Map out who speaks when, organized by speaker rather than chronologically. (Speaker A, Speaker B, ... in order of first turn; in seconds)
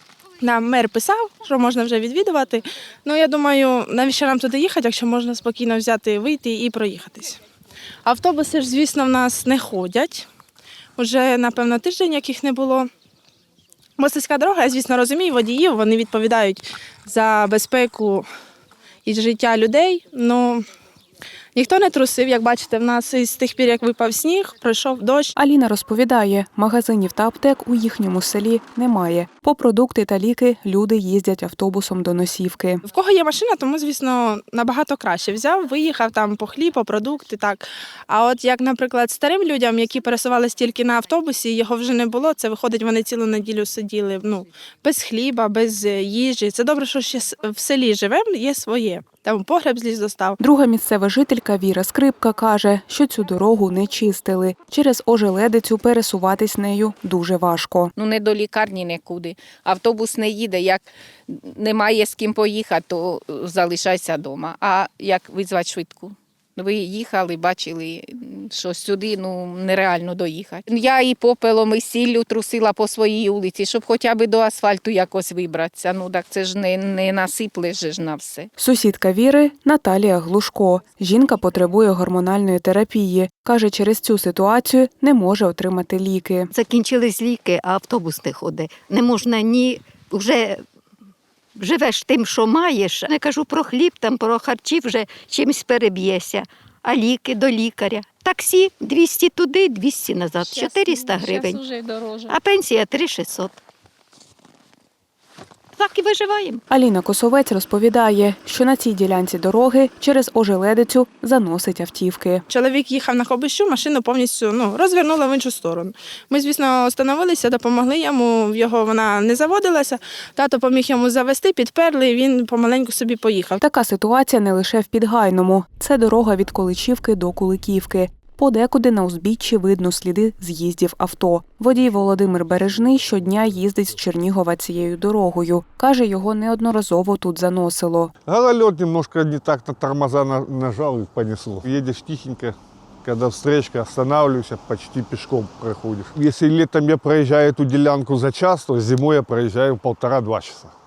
Speaker A: 0.4-7.4, 8.0-10.3, 11.0-12.9, 14.0-18.2, 19.0-20.6, 21.5-25.3, 32.8-50.4, 112.5-123.6
Speaker B: 25.4-32.8, 50.4-57.9, 78.6-86.5, 106.7-112.4, 123.6-138.1
Speaker C: 58.0-78.5, 100.4-102.4
Speaker D: 86.5-90.6, 91.5-101.6, 102.3-103.6, 105.7-106.6
Speaker E: 138.2-150.7